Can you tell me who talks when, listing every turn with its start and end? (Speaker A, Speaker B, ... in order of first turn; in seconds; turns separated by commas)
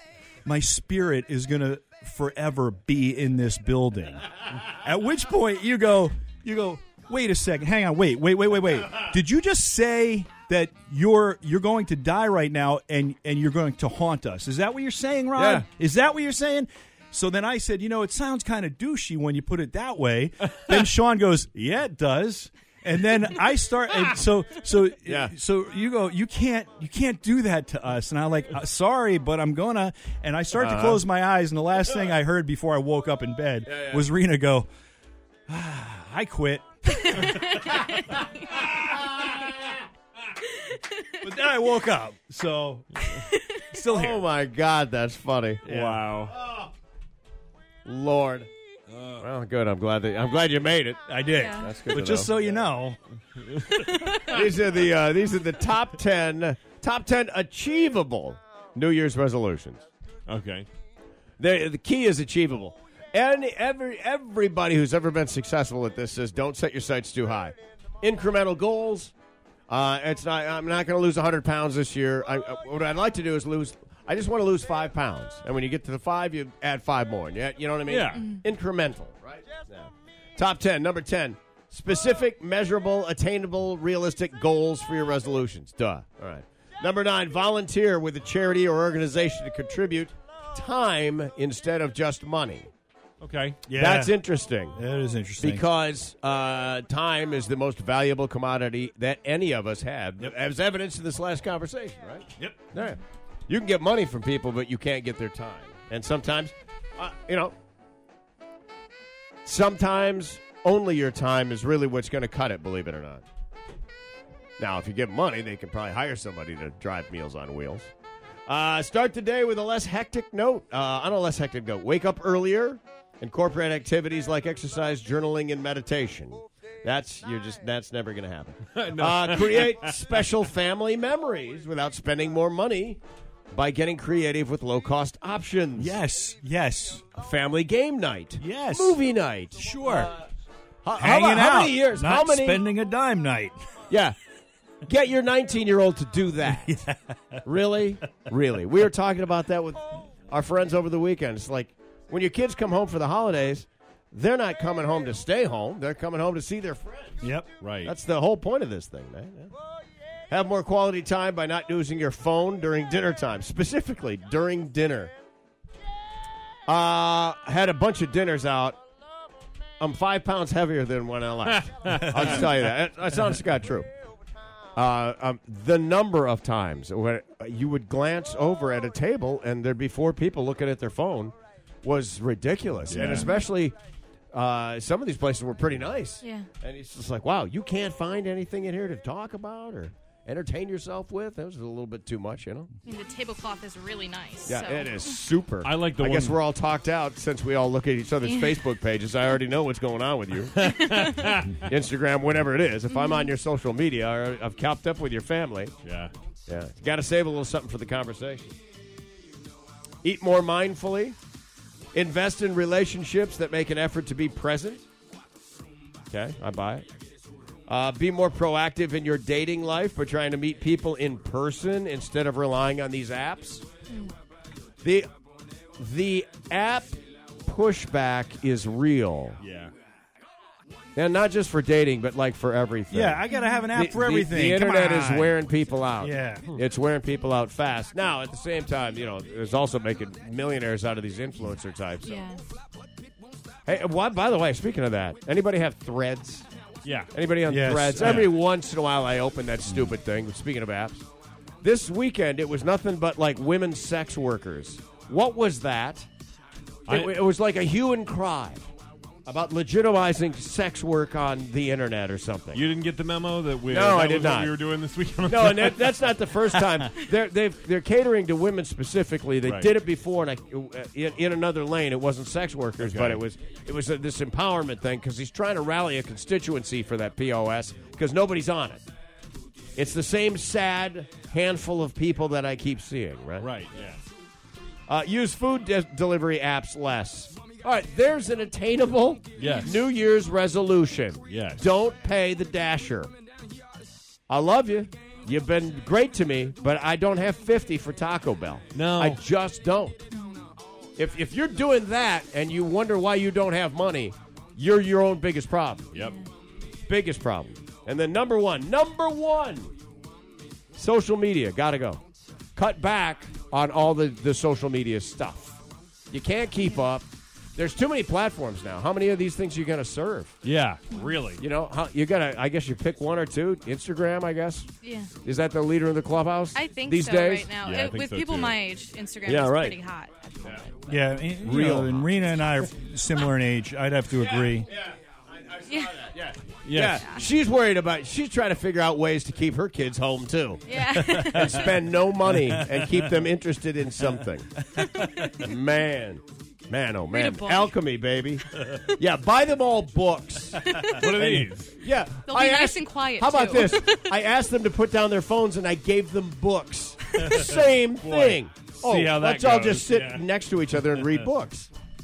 Speaker A: 0.4-34.7, Speaker B: 15.3-15.7, Speaker B: 25.1-25.3, Speaker B: 30.6-31.0, Speaker B: 33.7-34.0, Speaker A: 35.5-37.5, Speaker C: 37.0-39.7, Speaker A: 41.2-43.0, Speaker C: 43.1-43.4, Speaker A: 43.7-44.2, Speaker B: 43.9-45.7, Speaker D: 45.7-46.3, Speaker A: 45.7-46.0, Speaker B: 47.8-48.5, Speaker D: 48.9-49.2, Speaker B: 49.2-51.0, Speaker A: 51.1-53.0, Speaker C: 51.3-51.7, Speaker B: 51.6-52.6, Speaker D: 53.5-53.7, Speaker C: 53.8-54.4, Speaker B: 54.3-59.8, Speaker D: 60.3-60.6, Speaker B: 61.4-69.1, Speaker B: 69.7-92.7, Speaker D: 77.9-78.3, Speaker D: 93.2-93.7, Speaker A: 93.7-94.2, Speaker B: 93.7-94.8, Speaker A: 94.7-95.6, Speaker B: 95.4-107.5, Speaker A: 102.4-102.7, Speaker B: 109.4-113.2, Speaker B: 114.6-117.9, Speaker B: 118.5-133.0, Speaker D: 128.8-129.9, Speaker B: 133.5-135.9, Speaker A: 135.8-137.1, Speaker B: 137.1-139.7, Speaker A: 138.4-139.0, Speaker A: 139.6-140.1, Speaker B: 140.8-142.6, Speaker A: 140.9-143.6, Speaker B: 143.9-144.2, Speaker B: 144.8-146.7, Speaker A: 146.4-147.4, Speaker B: 147.4-157.3, Speaker A: 157.2-157.5, Speaker D: 157.6-157.9, Speaker B: 157.8-159.5, Speaker B: 160.3-165.1, Speaker B: 166.7-168.8, Speaker B: 169.8-173.9, Speaker B: 174.7-183.7, Speaker D: 182.9-183.2, Speaker C: 183.0-183.4, Speaker B: 184.3-192.7, Speaker C: 186.2-186.5, Speaker C: 192.8-195.1, Speaker B: 194.5-200.6, Speaker D: 195.6-196.4, Speaker C: 198.2-198.6, Speaker D: 200.6-201.6, Speaker C: 200.9-201.3, Speaker B: 201.7-205.7, Speaker C: 202.9-203.2, Speaker D: 205.8-206.1, Speaker B: 206.5-208.6, Speaker B: 210.0-211.1, Speaker B: 211.9-214.8, Speaker B: 216.1-216.8, Speaker B: 217.7-223.6, Speaker B: 224.8-225.1, Speaker B: 225.8-229.4, Speaker D: 229.4-229.7, Speaker B: 230.9-233.2, Speaker A: 232.9-235.3, Speaker C: 233.3-233.7, Speaker B: 233.7-242.2, Speaker A: 236.0-236.5, Speaker C: 242.0-242.4, Speaker B: 243.7-246.4, Speaker D: 246.8-247.1, Speaker B: 247.1-251.0, Speaker A: 247.4-248.3, Speaker B: 251.6-256.1, Speaker D: 256.9-257.2, Speaker B: 256.9-258.6, Speaker B: 259.2-262.6, Speaker D: 262.5-266.0, Speaker B: 263.7-264.5, Speaker B: 265.2-278.8, Speaker D: 269.4-269.7, Speaker D: 272.8-273.2, Speaker B: 279.8-283.5, Speaker D: 283.4-284.0, Speaker B: 284.9-293.1, Speaker D: 289.4-289.8, Speaker D: 291.3-291.6, Speaker B: 294.3-300.0, Speaker D: 298.7-299.2, Speaker C: 300.1-300.4, Speaker B: 300.9-305.9, Speaker C: 305.9-306.2, Speaker B: 306.9-309.7, Speaker B: 310.7-312.0, Speaker B: 312.6-315.6, Speaker B: 316.1-320.3, Speaker D: 320.4-321.4, Speaker B: 321.4-324.7, Speaker C: 324.8-325.1, Speaker B: 325.2-327.5, Speaker C: 326.5-331.3, Speaker D: 327.6-328.6, Speaker B: 329.2-329.8, Speaker A: 330.9-334.7, Speaker B: 331.4-332.1, Speaker B: 334.2-340.6, Speaker C: 335.7-336.1, Speaker D: 336.6-337.0, Speaker C: 336.9-337.3, Speaker C: 340.7-341.8, Speaker A: 340.9-341.7, Speaker B: 341.3-344.5, Speaker A: 342.2-343.0, Speaker A: 344.7-345.5, Speaker B: 345.3-348.4, Speaker C: 347.1-347.7, Speaker C: 348.6-348.9, Speaker B: 349.0-361.7, Speaker A: 350.6-350.9, Speaker C: 350.6-350.9, Speaker D: 351.0-351.7, Speaker C: 352.2-354.1, Speaker D: 358.0-360.2